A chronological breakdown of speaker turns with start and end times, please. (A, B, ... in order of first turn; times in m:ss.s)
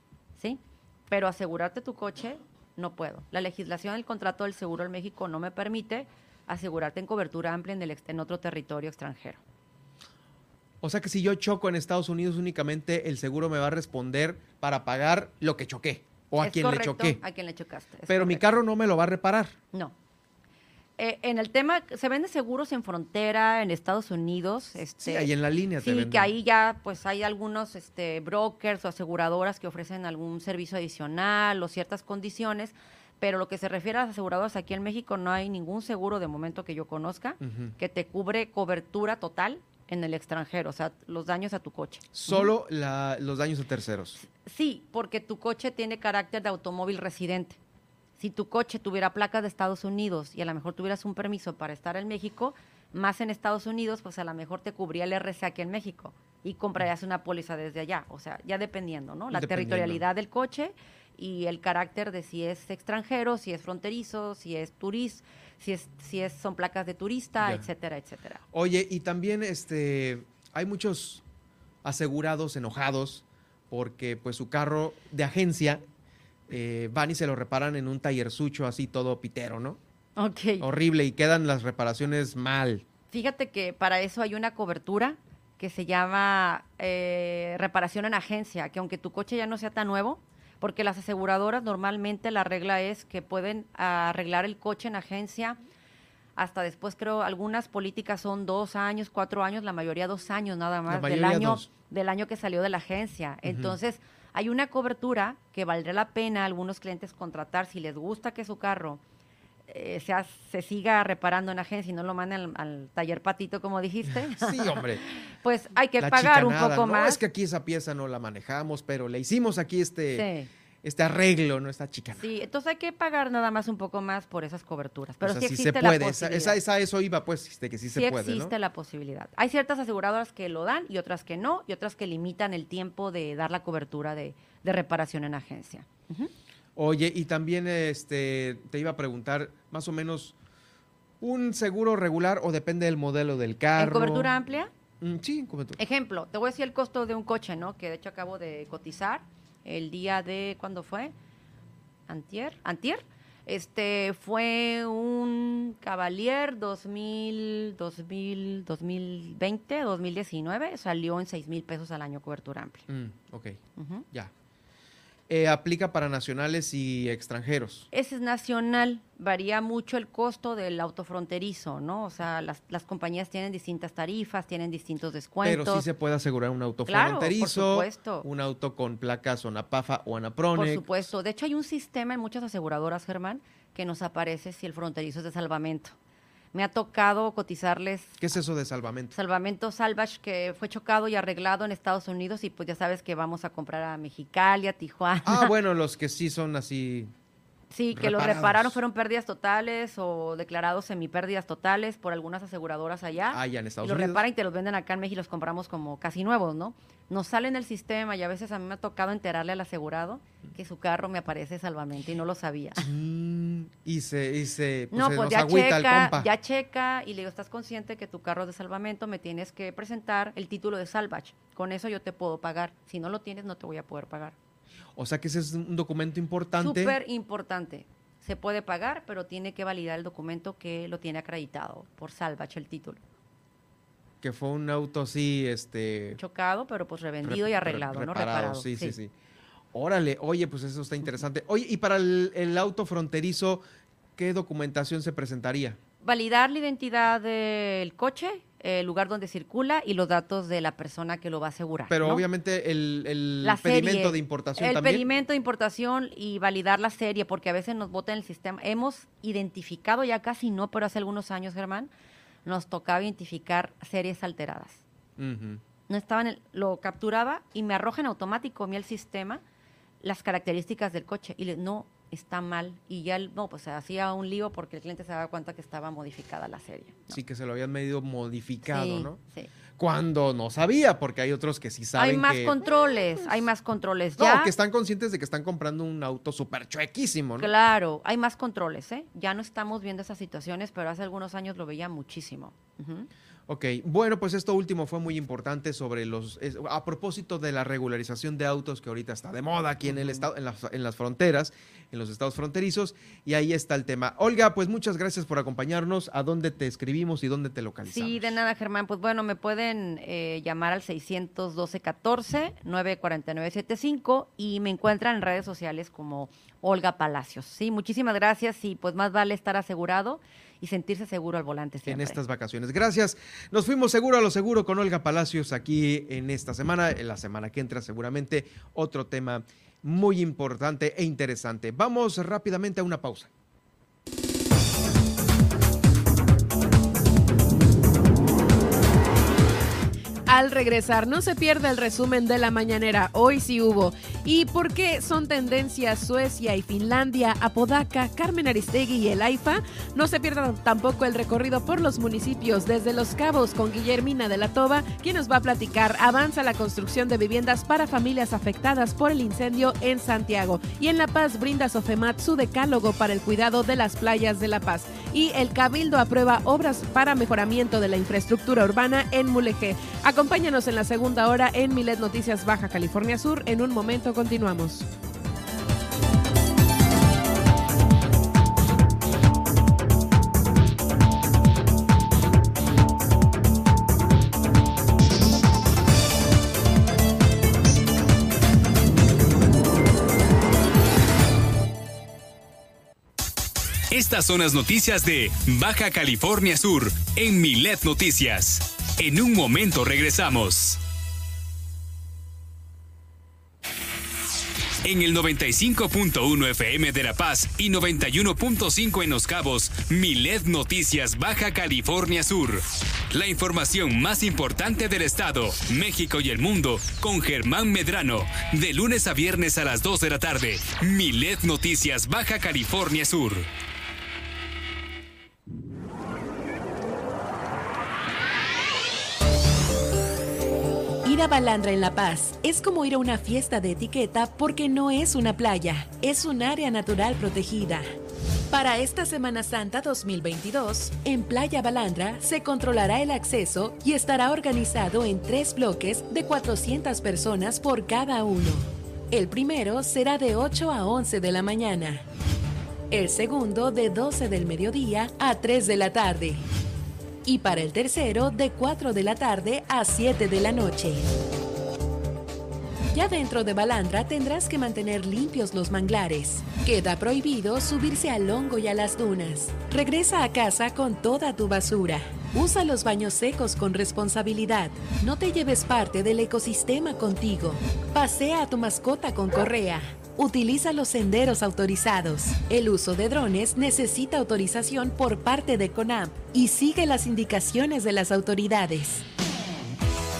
0:00.4-0:09.4 A
0:10.8-0:17.2 B
0:16.4-0:18.5 A
0:18.1-0:19.6 B
0:21.0-0:42.5 A
0:25.0-0:26.3 B
0:37.4-0:37.7 B
0:42.1-0:44.2 B
0:44.2-0:47.6 A
0:48.2-1:08.4 A
0:59.3-1:00.0 B
1:07.4-1:07.6 B
1:08.5-1:11.2 B
1:11.8-1:15.8 B
1:16.5-1:19.8 B
1:20.2-1:20.6 A
1:20.6-1:22.8 B
1:23.1-1:35.6 A
1:36.4-1:49.0 A
1:40.9-1:41.7 B
1:43.4-1:43.8 B
1:49.7-1:54.8 A
1:54.1-1:55.0 B
1:55.4-1:57.2 A
1:56.0-2:00.2 B
2:00.1-2:00.5 A
2:00.8-2:02.3 B
2:02.2-2:06.6 A
2:05.2-2:08.5 B
2:07.9-2:16.3 A
2:16.8-2:20.3 B
2:21.2-2:24.3 B
2:23.8-2:24.7 A
2:25.0-2:25.8 B
2:25.8-2:31.1 A
2:32.1-2:42.8 A
2:42.9-2:43.6 B
2:43.8-2:44.0 A
2:45.3-2:47.9 B
2:47.9-2:55.8 A
2:55.4-3:00.9 B
2:56.9-2:58.2 A
3:00.5-3:06.0 A
3:06.5-3:08.1 A
3:08.2-3:09.1 B
3:09.1-3:15.5 A
3:15.2-3:17.1 B
3:17.7-3:32.9 A
3:17.9-3:18.8 B
3:23.3-3:24.2 B
3:32.8-3:36.3 B
3:34.9-3:44.4 A
3:45.0-3:47.0 B
3:46.6-3:53.0 A
3:54.2-3:56.2 B
3:56.2-3:59.0 A
3:57.2-3:59.1 B
3:59.7-4:03.6 B
4:04.2-4:05.8 B
4:06.0-4:12.2 A
4:11.9-4:15.0 B
4:13.4-4:21.9 A
4:22.4-4:24.8 A
4:25.2-4:25.6 B
4:25.9-4:29.4 A
4:30.0-4:37.2 A
4:37.1-4:39.2 B
4:38.7-4:39.5 A
4:39.8-4:42.6 B
4:42.0-4:44.5 A
4:44.2-4:47.5 B
4:47.4-4:53.1 A
4:53.5-5:08.4 B
4:59.8-5:00.3 A
5:07.8-5:22.2 A
5:21.8-5:33.3 B
5:40.3-6:14.9 C
6:33.9-6:40.8 D
6:44.8-7:03.5 D
7:11.0-7:17.9 E
7:18.5-7:32.0 E
7:32.9-7:36.4 E
7:37.2-7:41.0 E
7:42.9-8:09.0 E